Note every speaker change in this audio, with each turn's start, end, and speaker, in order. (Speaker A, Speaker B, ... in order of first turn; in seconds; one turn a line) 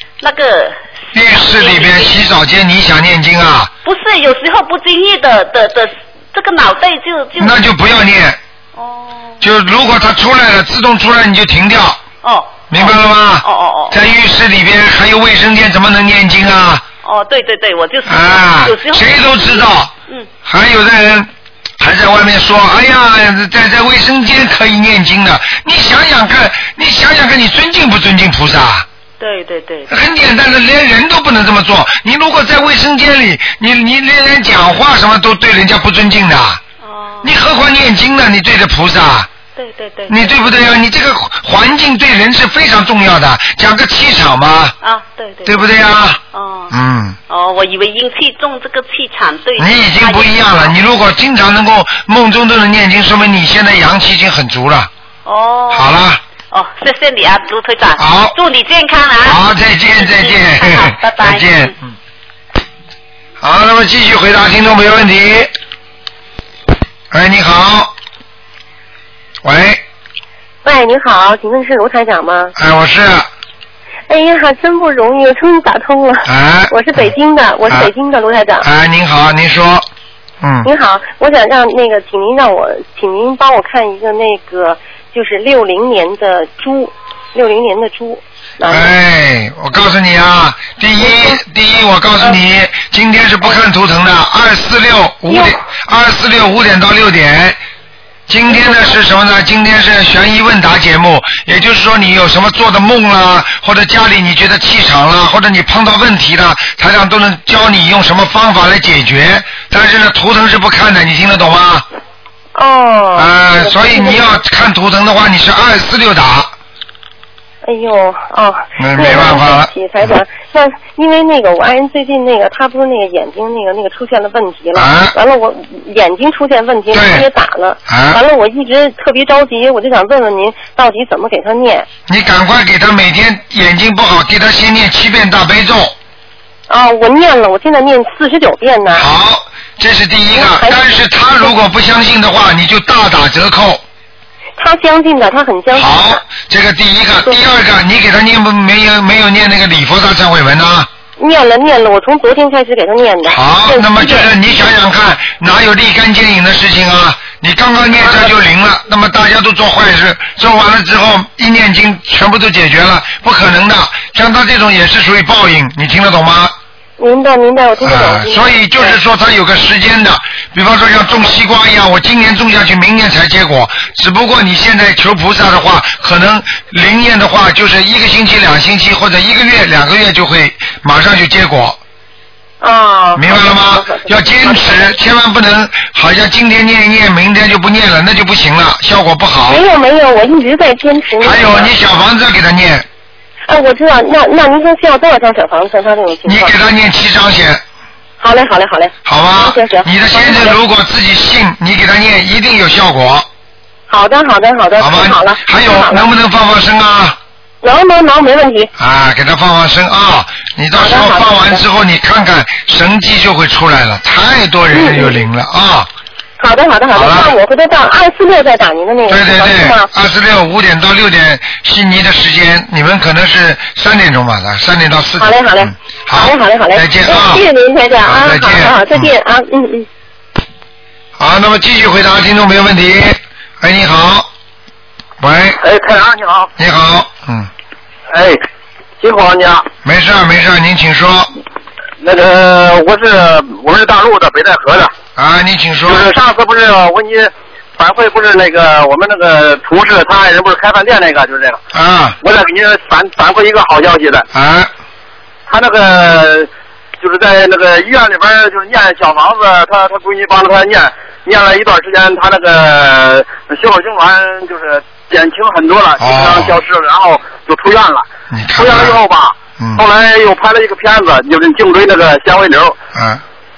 Speaker A: 0.2-2.2
Speaker B: 1.1-3.7
Speaker A: 3.9-7.6
Speaker B: 7.4-8.4
Speaker A: 8.8-9.4
Speaker B: 9.4-12.0
Speaker A: 12.2-14.0
Speaker B: 12.7-16.8
Speaker A: 17.0-20.3
Speaker B: 18.1-19.9
Speaker B: 20.4-21.3
Speaker B: 21.8-28.9
Speaker A: 29.2-29.9
Speaker B: 29.9-36.6
Speaker A: 36.8-37.3
Speaker B: 37.2-39.3
Speaker A: 39.5-40.6
Speaker B: 40.1-44.7
Speaker A: 44.8-45.7
Speaker B: 45.5-46.2
Speaker A: 46.3-46.7
Speaker B: 46.7-47.2
Speaker A: 47.3-50.8
Speaker B: 49.6-54.9
Speaker A: 55.2-59.4
Speaker B: 55.7-56.2
Speaker B: 58.0-58.3
Speaker B: 59.2-61.9
Speaker A: 60.0-61.7
Speaker B: 63.4-65.5
Speaker B: 67.1-67.9
Speaker B: 69.4-69.8
Speaker C: 70.6-72.5
Speaker B: 72.6-73.3
Speaker C: 74.1-78.7
Speaker B: 76.3-77.1
Speaker B: 78.6-79.8
Speaker B: 80.4-80.7
Speaker C: 80.6-88.9
Speaker B: 88.7-97.6
Speaker C: 91.0-91.4
Speaker C: 95.3-95.6
Speaker B: 98.3-111.8
Speaker C: 98.5-99.0
Speaker C: 112.5-114.3
Speaker B: 113.2-116.5
Speaker C: 117.7-131.9
Speaker B: 118.8-120.1
Speaker B: 124.8-125.1
Speaker B: 126.9-127.3
Speaker B: 127.9-128.2
Speaker B: 132.1-135.9
Speaker C: 136.7-139.1
Speaker B: 138.9-143.8
Speaker C: 140.3-141.5
Speaker C: 144.6-146.2
Speaker B: 145.7-150.9
Speaker C: 151.2-154.3
Speaker B: 153.3-166.5
Speaker C: 158.0-158.3
Speaker C: 167.0-169.0
Speaker B: 167.8-181.8
Speaker C: 182.6-184.9
Speaker B: 183.2-189.6
Speaker C: 189.5-191.7
Speaker B: 191.2-192.8
Speaker C: 193.5-196.5
Speaker B: 196.3-197.6
Speaker C: 198.2-200.6
Speaker B: 199.1-203.3
Speaker C: 203.9-206.1
Speaker B: 204.8-207.2
Speaker C: 207.6-208.7
Speaker B: 208.8-215.9
Speaker C: 210.8-211.6
Speaker C: 214.7-215.3
Speaker C: 216.4-219.9
Speaker B: 216.9-217.3
Speaker B: 219.1-227.4
Speaker C: 225.2-229.9
Speaker B: 228.0-229.1
Speaker B: 231.2-234.3
Speaker B: 235.2-235.6
Speaker D: 235.6-236.5
Speaker B: 236.6-237.5
Speaker D: 238.1-238.4
Speaker D: 239.0-239.7
Speaker B: 239.8-241.3
Speaker D: 242.0-244.9
Speaker B: 245.2-246.1
Speaker D: 245.9-251.6
Speaker B: 251.7-252.2
Speaker D: 252.2-254.2
Speaker B: 254.3-254.7
Speaker D: 255.5-256.5
Speaker D: 257.0-268.1
Speaker B: 266.0-266.6
Speaker B: 268.3-269.0
Speaker D: 268.6-272.8
Speaker B: 272.9-273.2